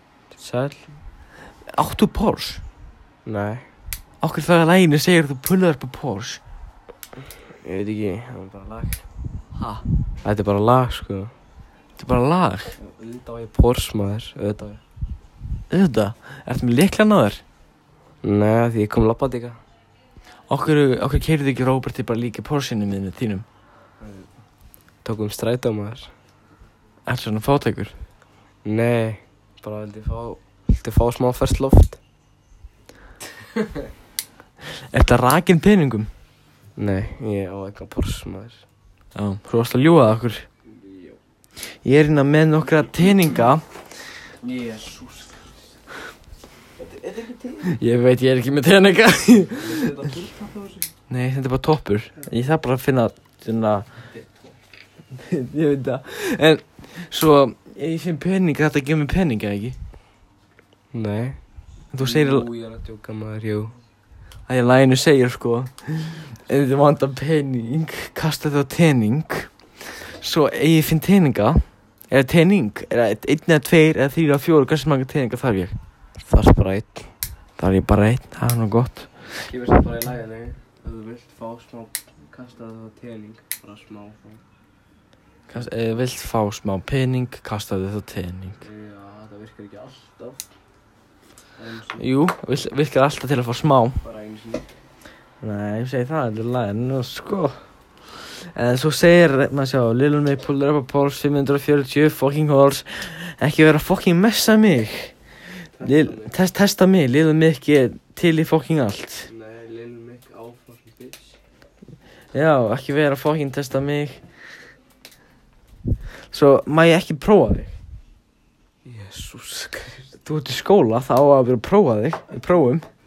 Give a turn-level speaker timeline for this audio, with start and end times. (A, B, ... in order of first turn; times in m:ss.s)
0:00.4-0:00.8 A
0:01.7-0:02.6 A
0:03.2-0:03.6 B
0:04.2-0:06.4 A
0:07.6-0:09.0 B
0:09.6-0:09.8 A
0:10.2-0:11.3 B
0:12.0-0:12.8 A
0:12.8-0:14.8 B
0:15.7-0:17.4 A
0:18.2-0:19.6 B
0:20.5-0:23.5 A
0:24.0-0:24.3 B
0:25.0-0:26.1 B
0:27.1-0:28.0 A
0:28.6-0:32.0 B
0:34.9-0:36.1 A
0:36.8-0:38.6 B
0:39.2-0:40.5 A
0:40.7-0:41.2 B
0:41.8-0:43.6 A
0:44.4-0:45.5 B
0:46.8-0:47.7 B
0:47.7-0:49.8 A
0:49.6-0:50.9 B
0:51.1-0:53.9 A
0:55.1-0:59.8 A
1:00.9-1:03.7 B
1:01.9-1:02.5 A
1:04.5-1:15.7 A
1:16.3-1:17.1 B
1:17.6-1:19.2 A
1:19.4-1:24.4 B
1:25.5-1:28.6 A
1:28.6-1:30.5 B
1:31.6-1:32.1 B
1:32.0-1:34.0 A
1:34.0-1:34.7 B
1:35.4-1:37.6 A
1:38.5-1:45.2 A
1:45.8-1:46.4 B
1:45.8-1:49.3 A
1:49.3-1:51.4 B
1:52.3-1:54.2 A
1:56.3-1:57.8 A
1:58.8-2:00.1 B
2:00.2-2:02.8 A